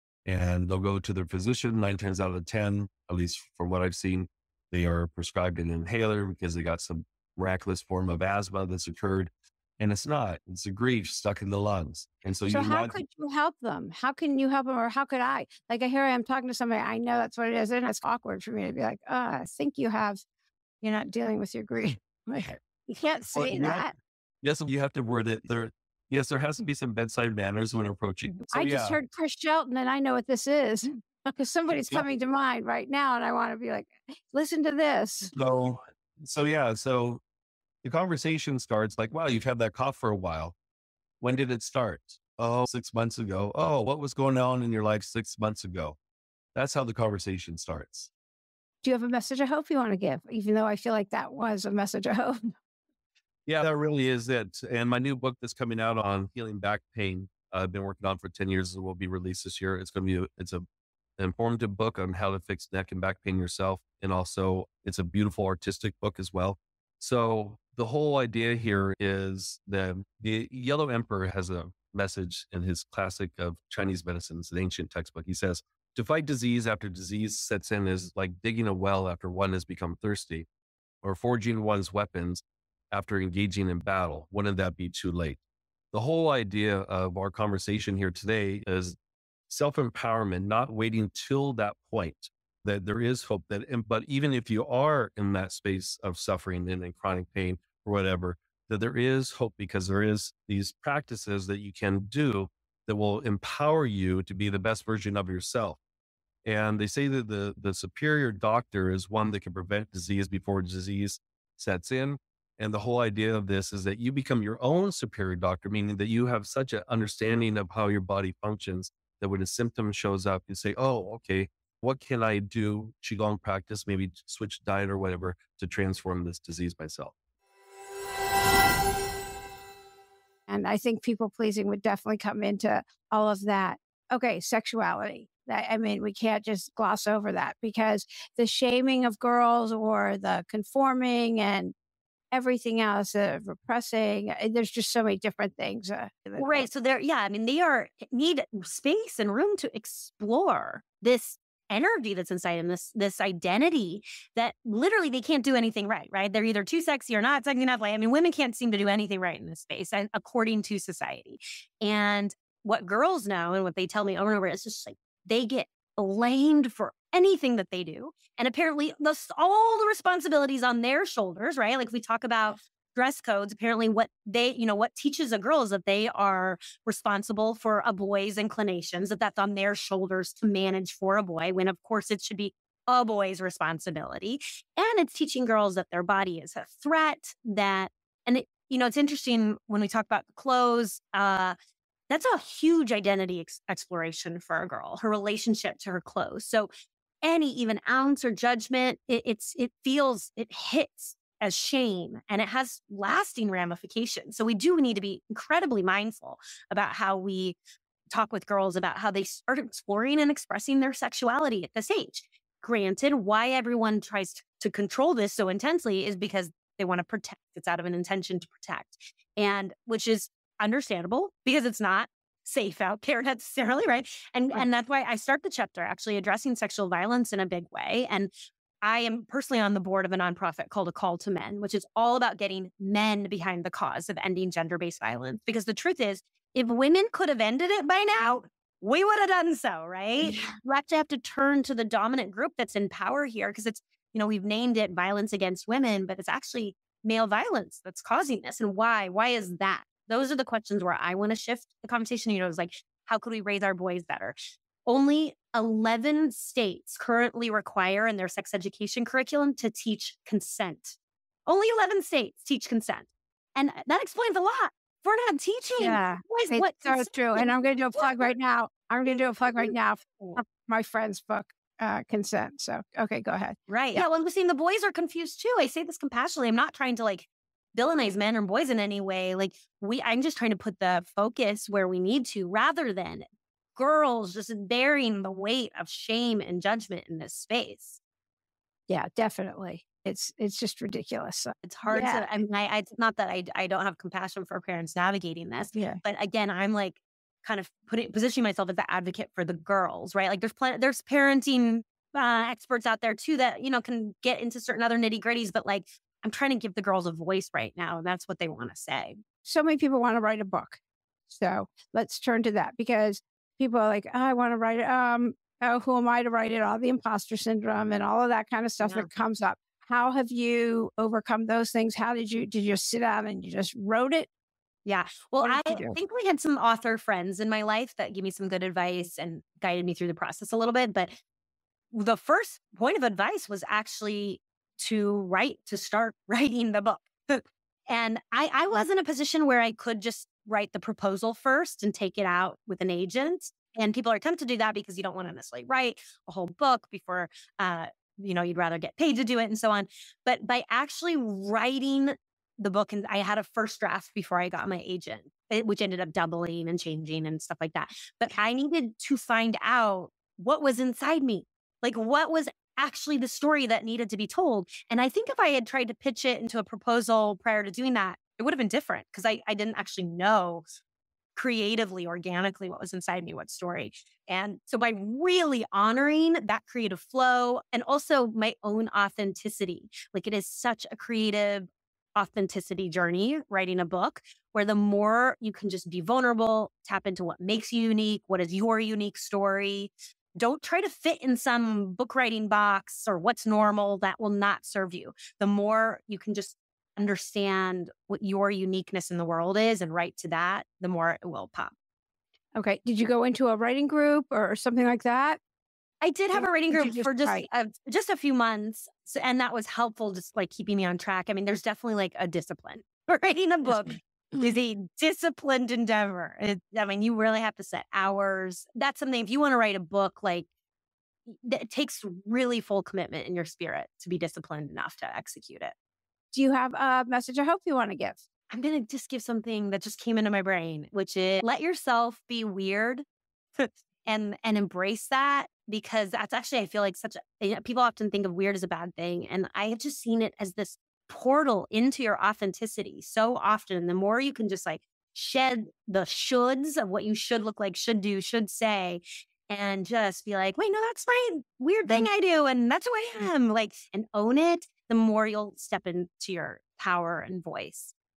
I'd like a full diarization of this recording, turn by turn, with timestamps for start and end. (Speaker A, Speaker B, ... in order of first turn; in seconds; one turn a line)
Speaker A: 0.2-13.0
Speaker B: 12.5-20.2
Speaker B: 20.8-23.9
Speaker A: 23.4-23.9
Speaker A: 24.4-29.0
Speaker B: 28.5-35.3
Speaker A: 31.7-32.1
Speaker A: 35.3-37.2
Speaker A: 37.8-40.5
Speaker A: 41.2-46.0
Speaker A: 46.5-48.1
Speaker B: 48.8-52.5
Speaker A: 53.5-60.6
Speaker A: 61.2-80.5
Speaker A: 81.0-85.4
Speaker A: 85.9-89.0
Speaker A: 89.5-105.8
Speaker A: 106.4-127.1
Speaker B: 130.5-141.7
Speaker B: 142.3-146.7
Speaker C: 146.4-191.6
Speaker C: 192.1-196.7
Speaker C: 197.2-207.6
Speaker C: 208.1-228.3
Speaker C: 228.8-268.3
Speaker B: 265.8-274.1
Speaker C: 269.4-270.4
Speaker C: 273.7-288.0
Speaker B: 288.9-292.2
Speaker C: 291.7-309.2
Speaker B: 295.7-296.0
Speaker B: 309.4-324.3
Speaker C: 318.8-319.1
Speaker C: 324.9-331.1
Speaker B: 325.4-325.9
Speaker C: 331.9-370.7
Speaker C: 371.4-401.7
Speaker B: 402.6-405.4
Speaker C: 406.0-420.5
Speaker B: 406.3-407.5
Speaker C: 421.3-425.7
Speaker B: 426.3-428.2
Speaker C: 428.5-433.0
Speaker C: 433.6-457.9